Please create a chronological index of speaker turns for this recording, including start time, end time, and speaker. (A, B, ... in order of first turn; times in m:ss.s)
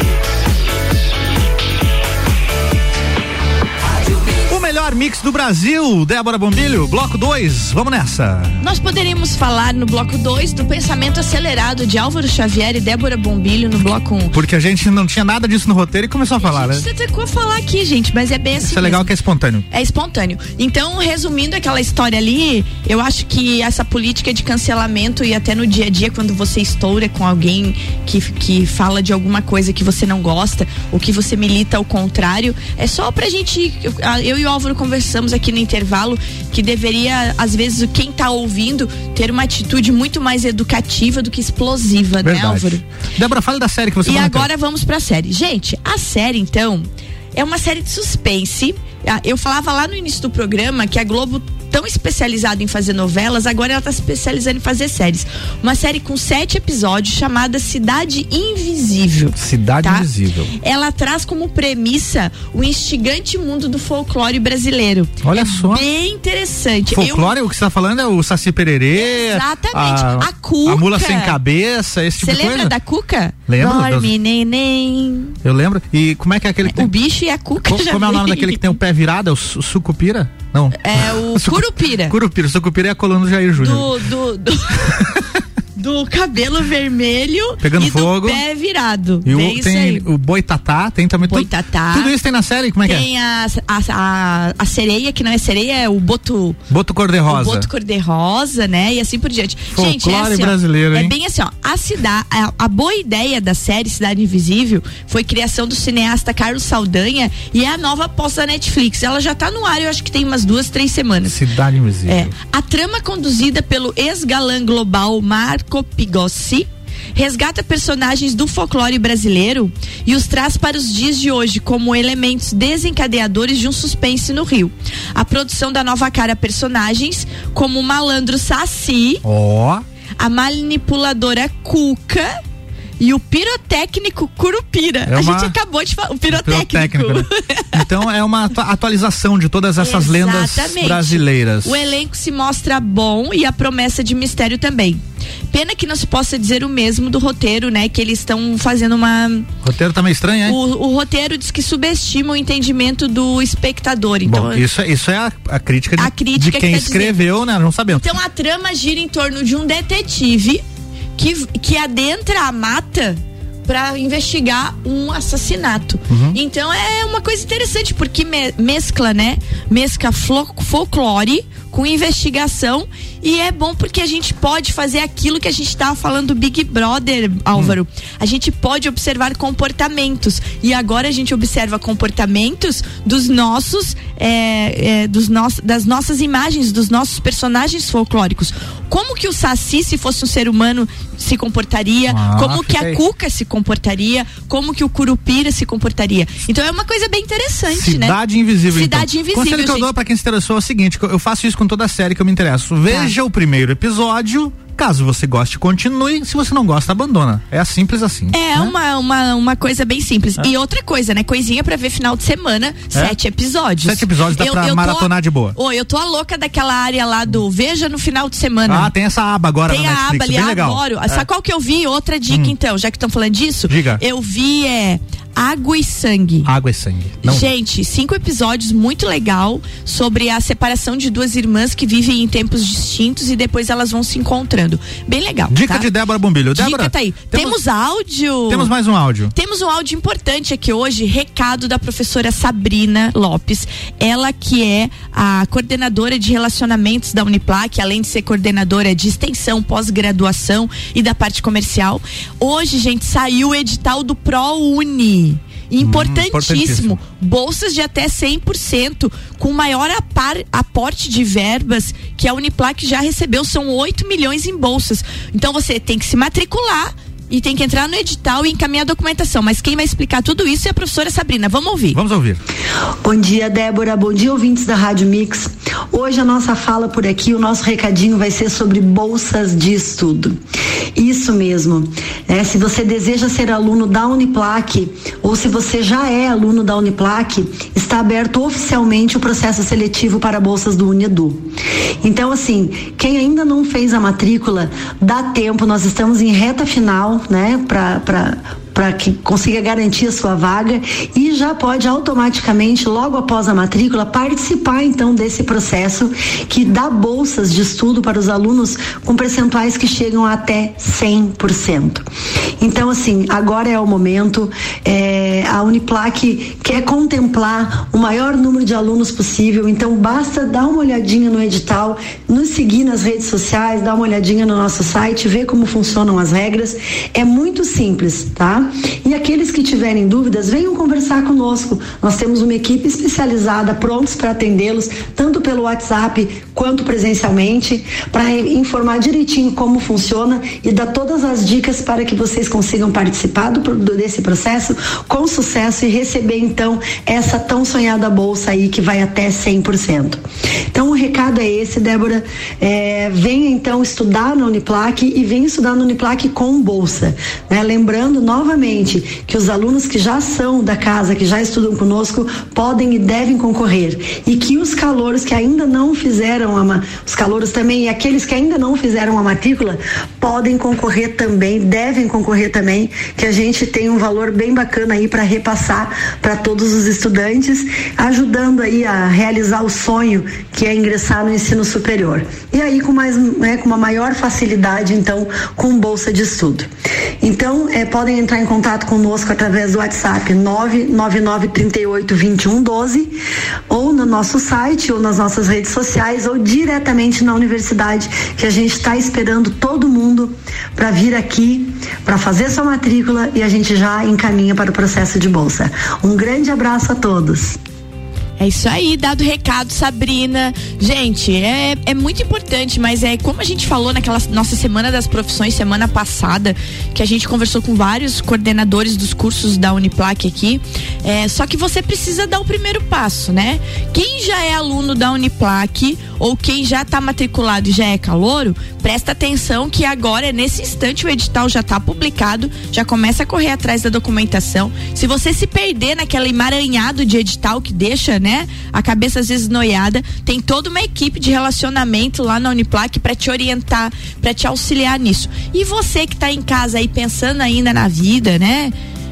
0:04.5-0:08.6 A
0:08.6-0:14.4 B
0:14.3-0:16.8 A
0:16.4-0:19.1 B
0:18.6-0:19.6 A
0:19.7-0:42.8 B
0:42.2-0:44.5 A
0:44.0-1:07.3 B
0:59.4-1:00.5 A
1:05.2-1:05.8 A
1:06.9-1:12.7 A
1:08.9-1:11.4 B
1:12.2-1:15.4 B
1:13.5-1:14.1 A
1:15.4-1:16.9 A
1:16.6-1:18.8 B
1:17.6-1:23.9 A
1:20.8-1:22.1 B
1:23.6-1:25.1 B
1:25.8-1:30.1 B
1:27.6-1:28.4 A
1:29.2-1:33.1 A
1:31.3-1:32.2 B
1:32.8-1:36.6 B
1:36.7-1:37.7 A
1:37.3-1:51.4 B
1:39.7-1:41.1 A
1:51.3-1:52.3 A
1:52.1-2:09.2 B
2:09.2-2:09.8 A
2:10.2-2:12.3 B
2:13.0-2:17.8 B
2:15.1-2:15.5 A
2:16.3-2:21.8 A
2:19.8-2:29.5 B
2:29.6-2:30.6 A
2:30.4-2:34.6 B
2:34.2-2:38.0 A
2:36.0-2:37.2 B
2:37.9-2:40.6 B
2:41.2-3:19.9 B
2:46.1-2:46.4 A
3:12.1-3:13.0 A
3:17.7-3:28.7 A
3:22.9-3:23.1 B
3:28.3-3:38.9 B
3:33.8-3:35.6 A
3:38.7-3:41.2 A
3:39.7-3:46.5 B
3:43.7-3:44.0 A
3:46.4-3:47.5 A
3:47.2-3:55.9 B
3:55.5-3:57.6 A
3:56.5-3:58.7 B
3:58.5-3:59.3 A
3:59.3-4:32.0 B
4:15.8-4:17.0 A
4:31.9-4:32.4 A
4:33.0-4:40.4 C
4:41.0-4:51.4 C
4:52.0-5:12.0 C
5:12.6-5:50.2 C
5:50.7-6:26.7 C
6:27.2-6:33.1 C
6:33.7-6:47.6 C
6:48.4-7:28.7 B